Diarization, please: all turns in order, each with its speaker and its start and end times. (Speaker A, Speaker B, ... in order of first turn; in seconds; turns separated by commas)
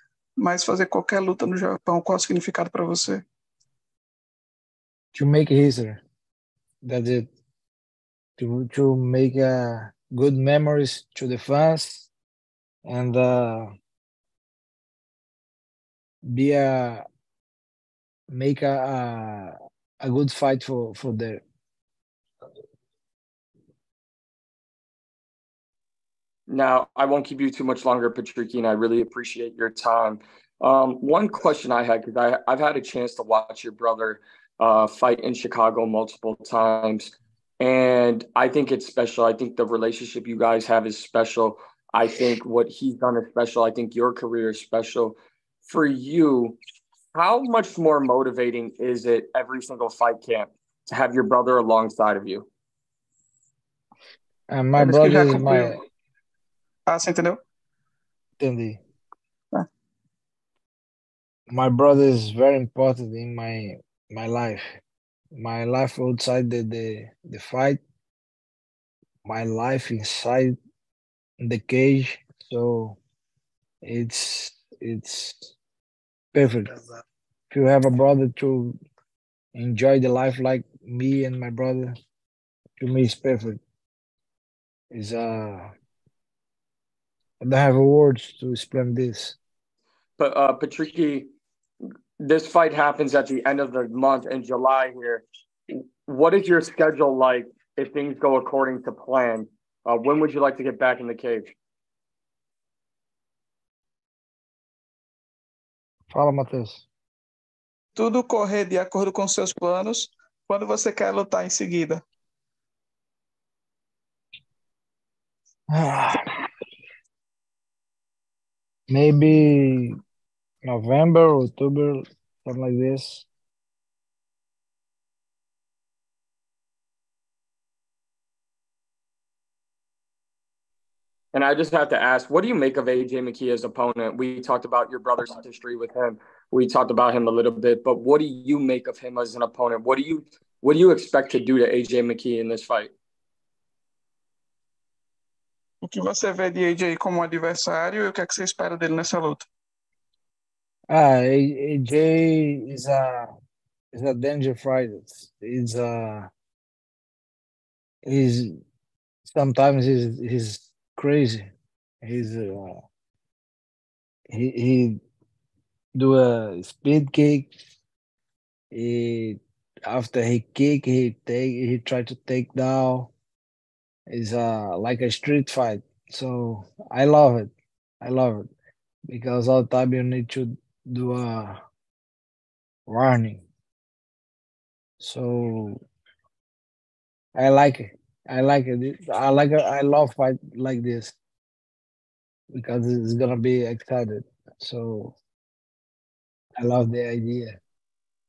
Speaker A: 0.4-3.2, Speaker B: 5.1-6.0, Speaker B: 6.8-7.3, Speaker B: 8.4-12.1, Speaker B: 12.8-13.7, Speaker B: 16.3-17.0, Speaker B: 18.3-21.4, Speaker C: 26.5-46.6, Speaker C: 47.1-52.5, Speaker B: 54.5-55.8, Speaker A: 54.8-55.8, Speaker A: 56.9-57.4, Speaker B: 58.4-58.8, Speaker B: 61.5-64.8, Speaker B: 65.4-67.8, Speaker B: 69.3-70.6, Speaker B: 71.4-73.0, Speaker B: 73.8-75.5, Speaker B: 76.3-76.8, Speaker B: 77.5-78.8, Speaker B: 79.5-81.9, Speaker B: 82.8-83.6, Speaker B: 84.9-85.7, Speaker B: 87.4-89.4, Speaker C: 90.2-91.3, Speaker C: 92.2-101.5, Speaker B: 106.1-106.8, Speaker A: 108.0-112.0, Speaker B: 115.7-116.3, Speaker B: 118.9-119.9, Speaker B: 120.6-123.3, Speaker C: 131.3-142.9, Speaker A: 145.8-149.5, Speaker B: 150.9-153.3, Speaker B: 153.9-156.3, Speaker B: 158.1-158.5, Speaker B: 159.3-161.5, Speaker B: 162.0-162.8, Speaker B: 164.3-165.0, Speaker B: 166.0-167.5, Speaker B: 168.7-173.1, Speaker B: 174.1-178.5, Speaker B: 179.1-181.6, Speaker B: 182.9-183.4, Speaker B: 185.0-185.8, Speaker B: 187.3-191.2, Speaker B: 192.5-195.2, Speaker B: 196.6-197.5